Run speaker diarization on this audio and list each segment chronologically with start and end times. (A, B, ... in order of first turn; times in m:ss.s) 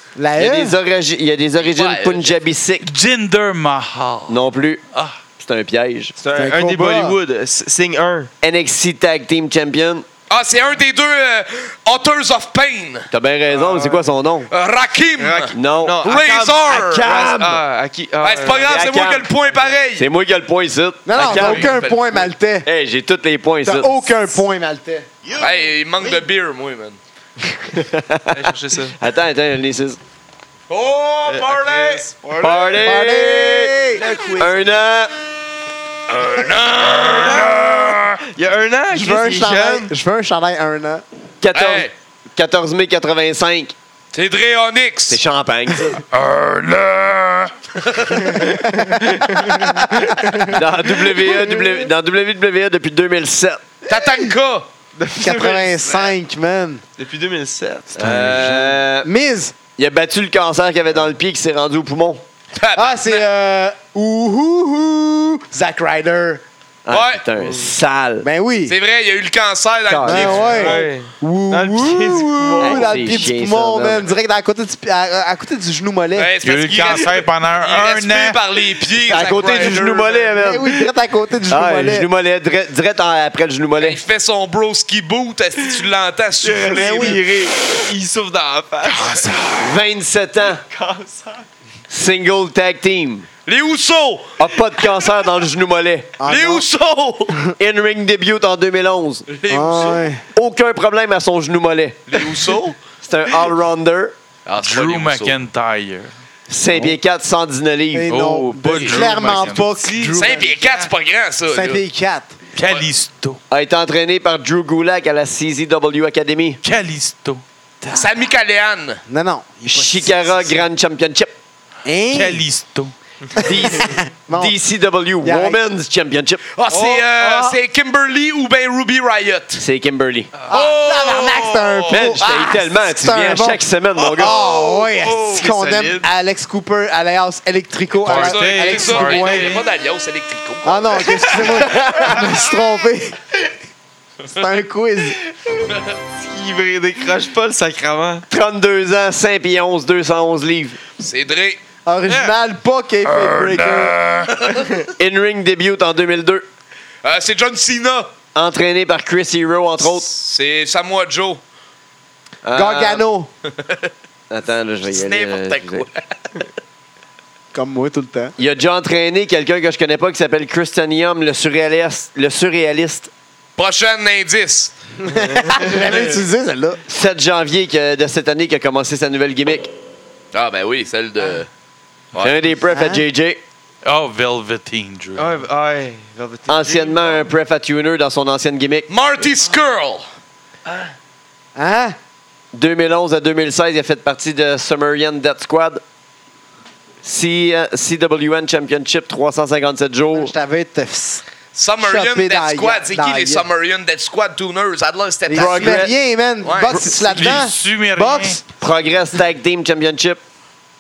0:00.2-0:00.8 A
0:00.3-0:02.9 B
0:01.6-0:02.4 C
0:02.8-0:04.4 D
0:04.3-0:04.8 B
0:05.4-0:06.2 B
0:06.2-0:08.3 E
0:06.4-0:07.2 A
0:08.4-0:10.1 B
0:10.3-0:13.1 C
0:13.1-0:14.5 B
0:13.5-0:14.1 E
0:14.5-0:17.1 C
0:15.2-0:18.8 E
0:15.5-0:16.1 B
0:16.7-0:17.6 B
0:18.2-0:20.1 C
0:18.7-0:19.3 B
0:20.0-0:21.7 B
0:21.1-0:22.7 A
0:21.2-0:22.3 C
0:22.6-0:24.1 B
0:23.6-0:25.1 A
0:25.4-0:27.0 C
0:27.7-0:30.0 B
0:28.3-0:29.0 E
0:30.7-0:32.1 C
0:31.3-0:33.1 E
0:32.4-0:33.8 B
0:32.8-0:34.0 A
0:33.9-0:34.6 E
0:34.4-0:35.1 B
0:36.1-0:38.2 C
0:37.0-0:39.9 E
0:38.9-0:41.0 A
0:41.4-0:43.8 B
0:41.5-0:41.9 C
0:44.1-0:45.2 C
0:45.1-0:46.0 B
0:46.2-0:47.5 D
0:47.8-0:48.4 C
0:48.3-0:50.6 A
0:48.8-0:50.5 E
0:50.5-0:53.6 B
0:53.9-0:54.7 C
0:55.0-0:56.1 E
0:55.2-0:56.8 A
0:57.0-0:58.2 E
0:58.0-0:59.1 B
0:58.0-0:59.6 A
0:59.8-1:02.2 B
1:02.6-1:03.3 C
1:02.8-1:06.4 A
1:06.8-1:08.3 B
1:06.9-1:07.2 C
1:07.4-1:07.7 E
1:08.2-1:08.8 A
1:08.7-1:10.8 C
1:09.9-1:10.7 B
1:10.0-1:13.3 E
1:10.0-1:16.3 A
1:12.6-1:14.2 B
1:16.2-1:20.4 C
1:16.4-1:18.4 D
1:19.0-1:20.8 B
1:20.4-1:22.1 A
1:21.5-1:24.0 B
1:23.8-1:27.2 C
1:26.4-1:29.2 E
1:26.8-1:27.2 A
1:29.1-1:29.6 D
1:29.6-1:30.6 B
1:30.7-1:31.4 E
1:31.9-1:33.3 B
1:33.5-1:34.4 C
1:34.4-1:36.1 B
1:36.2-1:36.6 A
1:36.2-1:37.4 C
1:37.6-1:39.3 B
1:39.3-1:40.1 C
1:39.5-1:40.2 A
1:40.3-1:42.5 B
1:42.1-1:42.8 C
1:43.0-1:44.2 B
1:44.5-1:45.4 C
1:44.6-1:46.1 D
1:46.5-1:48.2 B
1:47.9-1:50.5 A
1:48.1-1:49.8 D
1:48.7-1:49.1 C
1:49.5-1:50.9 E
1:50.1-1:51.8 C
1:51.5-1:52.4 A
1:52.6-1:53.4 D
1:53.5-1:56.6 B
1:56.6-1:57.4 D
1:57.9-1:59.0 C
1:59.1-2:00.6 A
1:59.7-2:01.3 B
2:01.8-2:02.4 A
2:02.1-2:02.9 D
2:03.4-2:04.6 A
2:03.4-2:06.4 B
2:05.2-2:05.6 A
2:06.6-2:09.6 C
2:06.7-2:07.6 A
2:09.6-2:10.3 B
2:10.5-2:12.6 C
2:10.5-2:19.6 A
2:11.9-2:14.4 B
2:14.1-2:16.1 E
2:18.0-2:19.6 D
2:18.1-2:22.1 C
2:20.6-2:23.2 A
2:24.3-2:25.2 A
2:26.2-2:28.2 E
2:28.3-2:30.8 B
2:31.0-2:31.6 C
2:31.8-2:34.0 A
2:34.3-2:34.6 C
2:35.0-2:36.4 B
2:37.0-2:38.1 C
2:38.4-2:40.1 B
2:39.8-2:41.4 C
2:42.4-2:43.1 B
2:42.5-2:43.3 A
2:44.3-2:45.9 B
2:44.9-2:46.5 C
2:47.5-2:48.3 A
2:48.4-2:53.1 B
2:53.6-2:54.7 C
2:55.0-2:56.8 A
2:55.3-2:56.0 E
2:56.9-2:59.7 B
3:00.3-3:01.5 C
3:02.1-3:02.4 C
3:02.2-3:03.4 B
3:02.7-3:03.0 A
3:03.8-3:05.3 D
3:05.2-3:07.3 E
3:06.5-3:08.9 B
3:08.9-3:10.1 C
3:10.7-3:10.9 E
3:11.6-3:12.0 A
3:12.5-3:15.8 B
3:17.0-3:20.3 B
3:20.1-3:21.2 A
3:21.5-3:27.4 C
3:21.8-3:23.5 A
3:25.3-3:28.4 A
3:25.3-3:26.0 B
3:27.0-3:28.4 D
3:28.6-3:30.2 B